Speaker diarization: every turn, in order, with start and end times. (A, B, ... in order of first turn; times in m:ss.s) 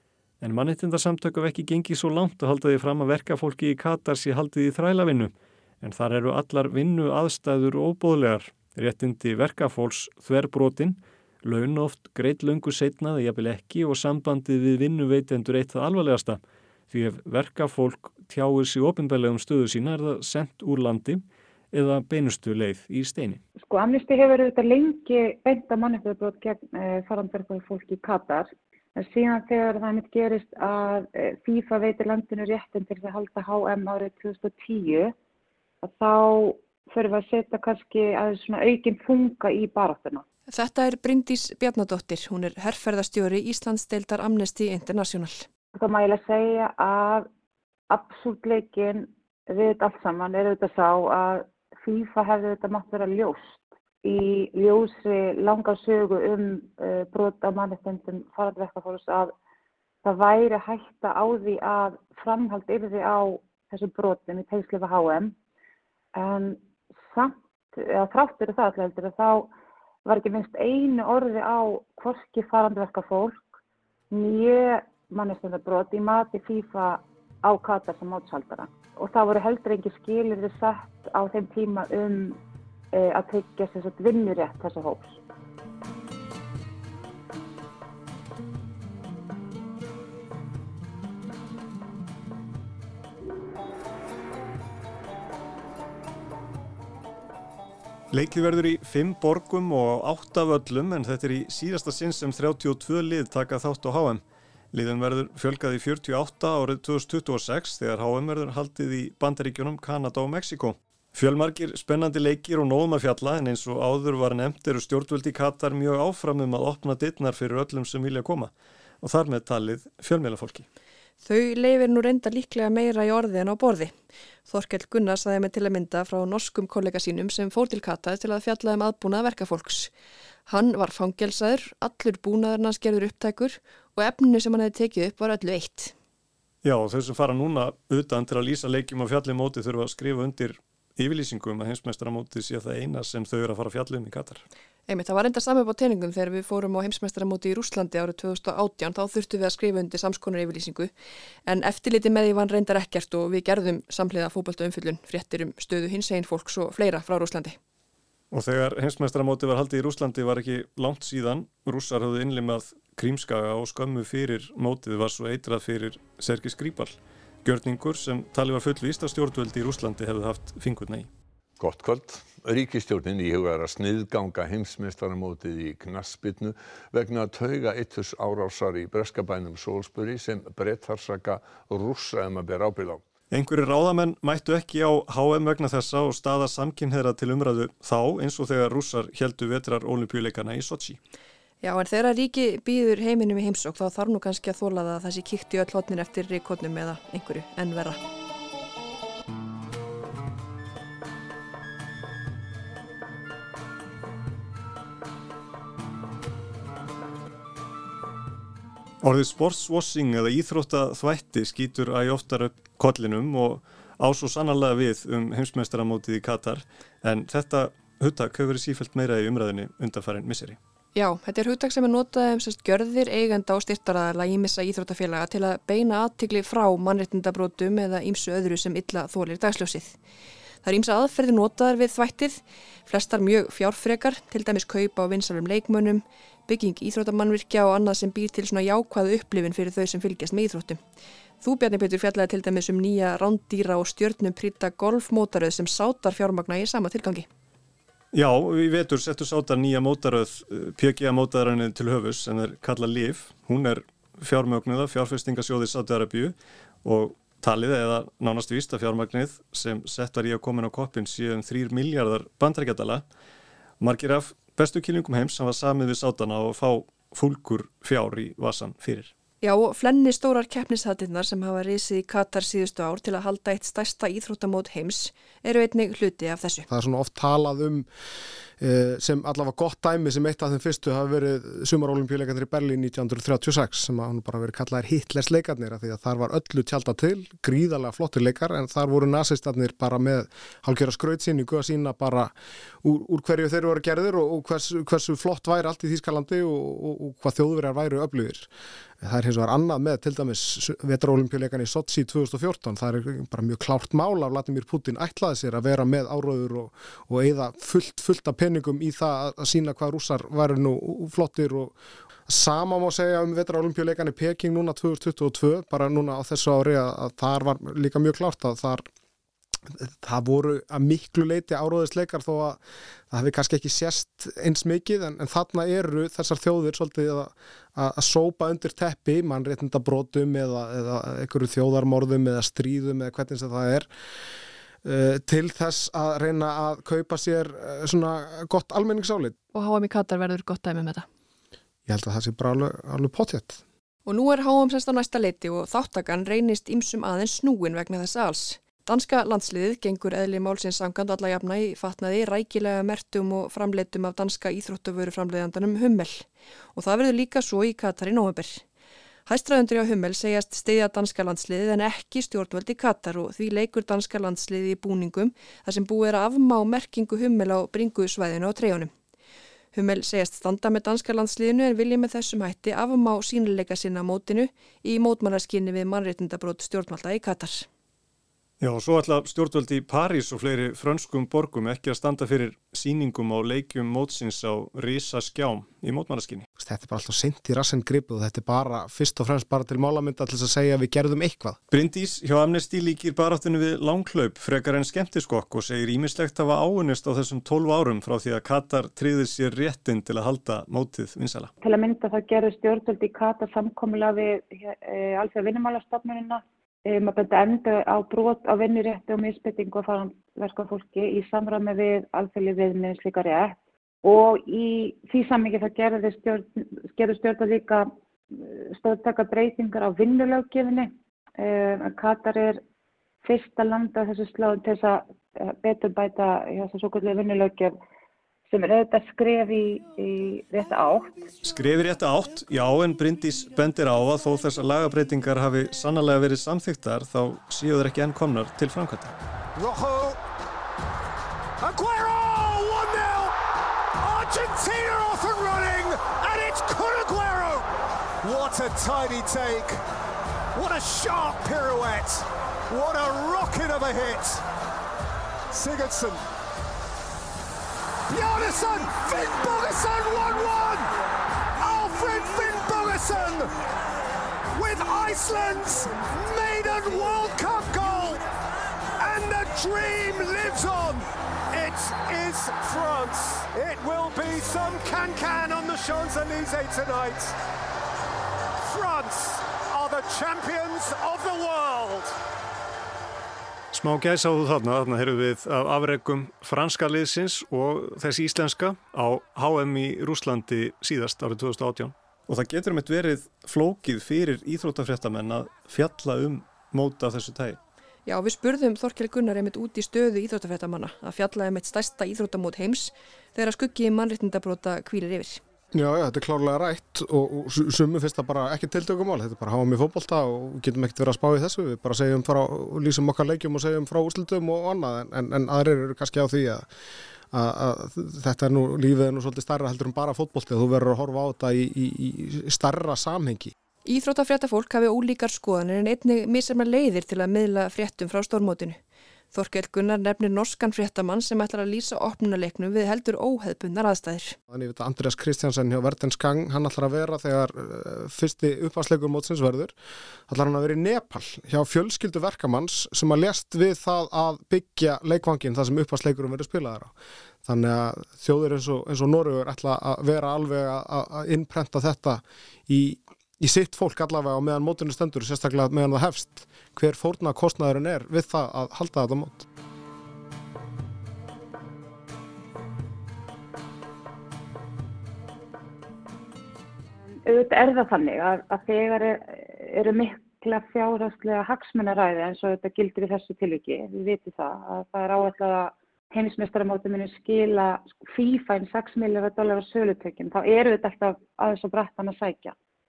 0:00.4-0:23.4 A
0:23.6-0:35.1 B
0:35.8-0:40.2 B
0:40.5-0:45.4 C
0:45.8-0:47.3 B
0:47.9-0:59.3 B
1:00.0-1:05.4 B
1:06.1-1:09.5 B
1:10.0-1:13.5 B
1:14.1-1:22.4 B
1:22.9-1:25.2 B
1:38.1-1:44.2 A
1:44.7-1:58.5 A
1:59.0-2:00.7 A
2:01.2-2:03.9 C
2:04.5-2:09.9 C
2:10.5-2:15.9 C
2:16.6-2:24.4 A
2:24.9-2:30.9 C
2:31.5-2:37.6 C
2:38.3-2:51.1 A
2:51.6-3:03.0 D
3:03.3-3:11.0 A
3:11.6-3:18.0 C
3:29.0-3:40.6 A
3:41.0-3:50.0 C
3:50.6-4:00.8 C
4:01.4-4:07.3 C
4:08.1-4:23.0 A
4:23.8-4:29.1 A
4:29.4-4:36.7 C
4:36.7-4:37.9 E
4:38.6-4:52.3 E
4:52.8-4:58.5 E
4:59.0-5:11.8 E
5:12.3-5:18.8 E
5:19.8-5:33.9 E
5:34.8-5:39.4 E
5:39.5-5:41.1 C
5:41.9-5:43.6 E
5:44.1-5:58.6 C
5:59.3-6:08.9 C
6:09.7-6:17.7 C
6:18.6-6:26.5 A
6:26.6-6:31.6 E
6:31.7-6:41.5 A
6:41.6-7:02.6 B
7:03.2-7:07.8 B
7:08.5-7:11.2 B
7:11.4-7:19.2 A
7:19.6-7:20.2 F
7:21.6-7:23.4 F
7:24.0-7:27.7 F
7:28.2-7:29.8 F
7:30.5-7:34.4 F
7:35.5-7:36.2 F
7:38.1-7:40.9 F
7:41.6-7:43.6 F
7:44.5-7:48.3 F
7:49.0-7:57.4 F
7:58.6-8:02.2 F
8:03.7-8:17.6 A
8:18.1-8:25.4 C
8:25.7-8:36.7 E
8:37.3-8:43.5 E
8:43.8-8:48.8 C
8:49.3-8:54.4 C
8:54.5-8:59.7 E
9:00.3-9:06.9 E
9:07.4-9:19.5 E
9:27.1-9:42.6 B